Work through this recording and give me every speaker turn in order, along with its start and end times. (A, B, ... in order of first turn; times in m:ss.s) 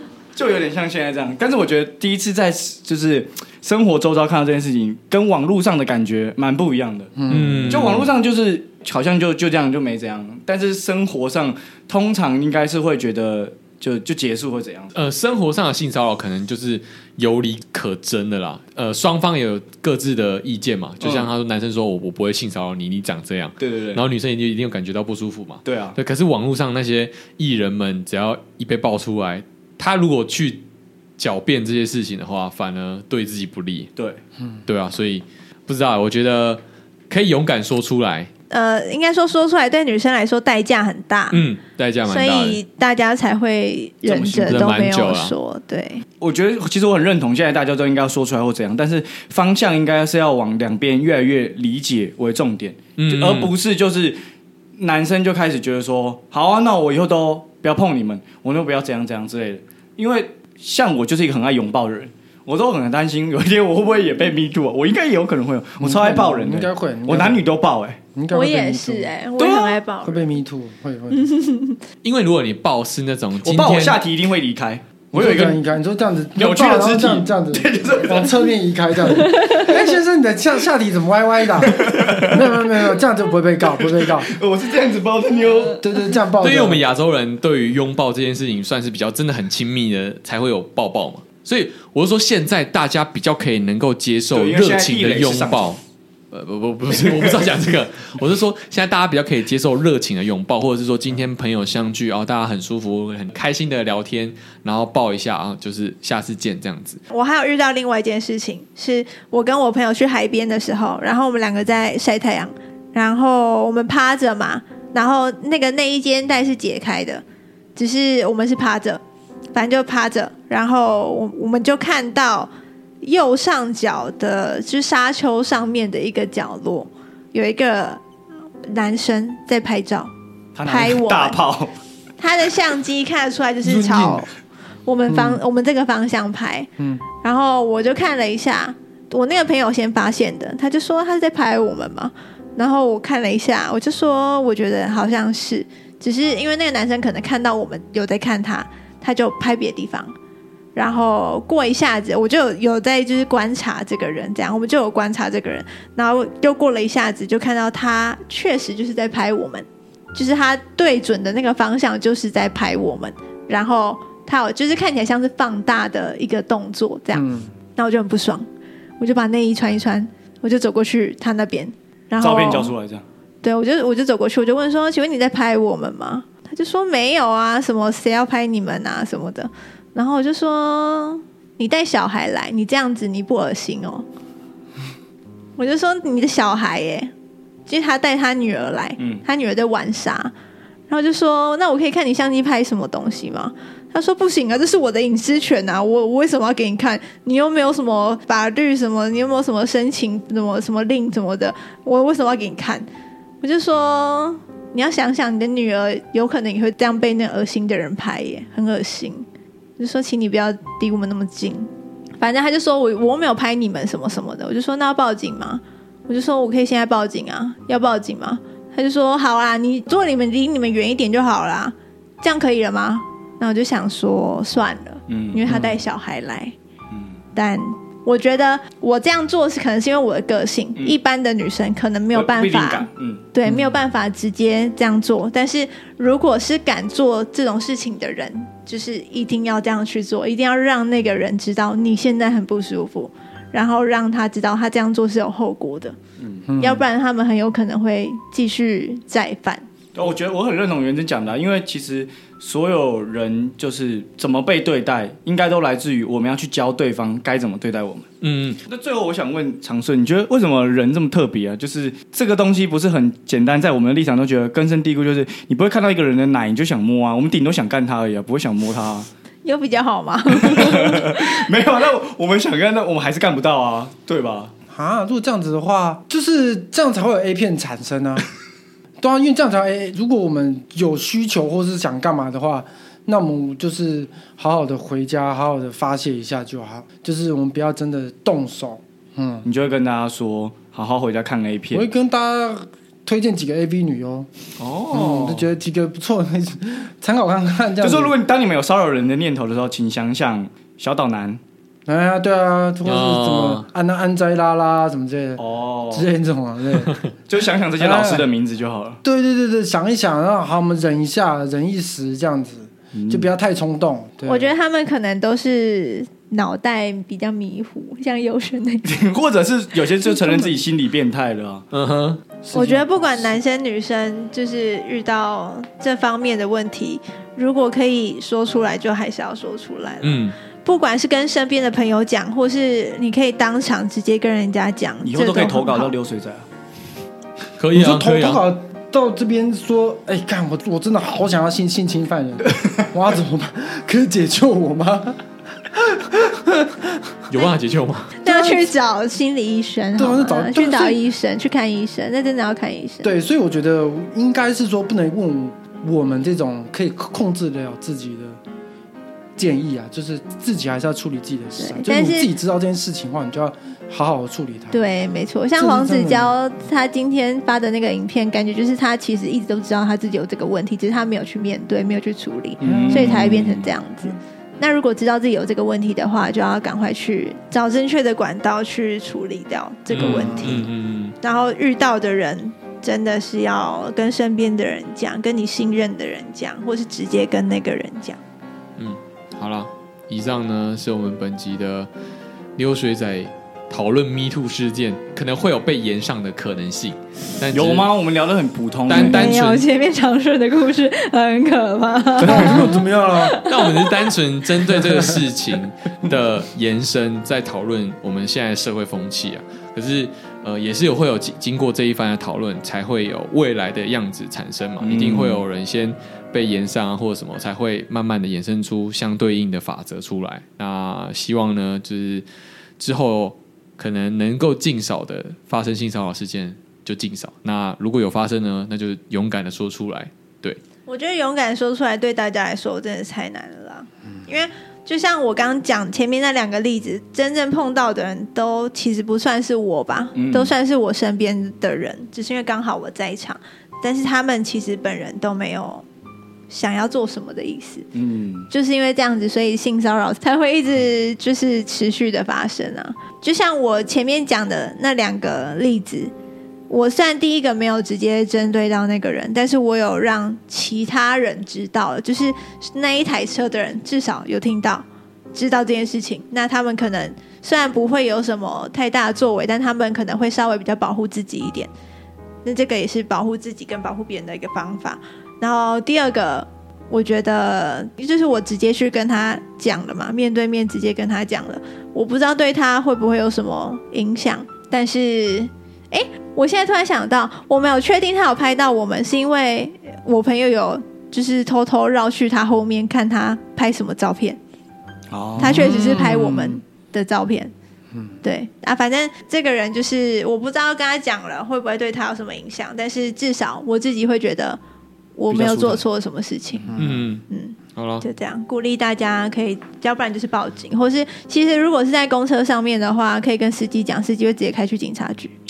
0:00.3-0:07.1 A
0:07.2-0:07.8 B
0:07.3-0:08.1 C
0:07.7-0:14.9 A
0:14.9-0:30.6 C
0:21.0-0:21.3 A
0:23.6-0:24.0 A
0:25.7-0:26.0 A
0:31.2-0:33.9 C
0:34.7-0:38.3 C
0:38.5-0:41.4 D
0:41.3-0:42.6 C
0:42.1-0:46.0 D
0:44.0-0:44.7 A
0:44.5-0:45.4 C
0:46.2-0:54.2 A
0:53.0-0:53.5 C
0:54.8-1:08.0 A
1:05.8-1:07.4 B
1:08.2-1:09.1 B
1:08.3-1:10.3 D
1:09.4-1:09.8 A
1:10.0-1:11.2 B
1:11.1-1:11.8 D
1:12.0-1:14.0 C
1:13.4-1:15.6 A
1:15.1-1:24.4 B
1:16.4-1:18.5 A
1:21.6-1:22.5 A
1:24.2-1:25.8 A
1:25.8-1:26.8 B
1:26.4-1:35.8 C
1:34.3-1:35.7 A
1:36.3-1:47.0 C
1:36.9-1:37.4 A
1:47.1-1:57.2 D
1:57.8-1:59.0 D
1:59.5-2:08.0 D
2:08.6-2:10.1 D
2:10.6-2:11.7 A
2:10.6-2:11.4 D
2:12.2-2:14.3 D
2:13.6-2:14.3 B
2:14.9-2:16.7 D
2:15.1-2:15.4 B
2:17.2-2:30.1 D
2:30.8-2:47.3 D
2:47.1-2:47.5 B
2:47.8-2:48.5 D
2:49.0-2:52.7 D
2:52.2-2:53.0 A
2:53.4-3:04.1 D
3:05.6-3:07.1 D
3:07.7-3:10.3 D
3:09.0-3:09.2 A
3:10.9-3:22.9 D
3:23.4-3:29.3 D
3:29.8-3:46.5 D
3:45.1-3:45.7 A
3:46.9-3:47.2 A
3:47.4-4:06.0 D
3:52.1-3:53.2 A
3:53.5-3:53.7 B
4:06.2-4:06.5 A
4:06.5-4:06.8 B
4:06.6-4:09.6 D
4:10.0-4:18.1 A
4:18.2-4:18.6 C
4:18.7-4:29.1 A
4:29.4-4:31.4 D
4:30.4-4:34.5 A
4:34.7-4:38.2 B
4:39.0-4:49.5 B
4:49.4-4:51.9 A
4:51.7-4:54.3 B
4:54.6-4:55.5 A
4:54.9-4:58.2 B
4:57.8-5:01.4 A
5:01.9-5:07.0 B
5:02.9-5:03.6 C
5:05.4-5:06.1 A
5:07.3-5:09.0 A
5:07.8-5:08.3 B
5:09.0-5:14.5 B
5:12.9-5:13.3 A
5:14.2-5:18.9 D
5:18.8-5:21.6 A
5:20.0-5:20.6 B
5:21.7-5:22.2 C
5:22.4-5:23.4 B
5:22.5-5:35.9 D
5:30.0-5:30.4 C
5:35.0-5:36.5 A
5:37.6-5:38.4 C
5:37.7-5:45.2 B
5:45.7-5:46.9 B
5:47.3-5:48.2 C
5:48.2-5:53.1 D
5:48.2-5:48.7 B
5:50.0-5:51.0 B
5:53.0-5:58.4 B
5:59.4-6:04.8 B
6:01.6-6:02.3 D
6:04.7-6:20.7 D
6:05.6-6:06.3 B
6:12.6-6:13.7 A
6:12.6-6:13.5 B
6:19.9-6:21.2 C
6:20.0-6:20.5 B
6:21.2-6:28.2 D
6:28.8-6:31.9 C
6:32.6-6:37.9 C
6:37.5-6:39.2 A
6:38.9-6:39.7 C
6:39.0-6:44.1 D
6:42.2-6:43.4 B
6:42.2-6:42.7 A
6:43.4-7:02.2 C
6:44.8-6:45.2 B
6:54.8-6:55.4 A
7:02.8-7:10.6 C
7:10.9-7:25.9 D
7:20.2-7:20.5 A
7:26.5-7:27.9 D
7:28.0-7:28.5 A
7:28.5-7:36.1 D
7:36.7-7:51.7 D
7:52.4-8:14.4 D
8:15.1-8:15.9 A
8:15.4-8:16.6 B
8:15.4-8:17.5 D
8:18.2-8:24.6 D
8:25.2-8:26.8 D
8:25.3-8:25.8 A
8:26.8-8:27.2 C
8:27.3-8:35.3 D
8:27.8-8:28.0 C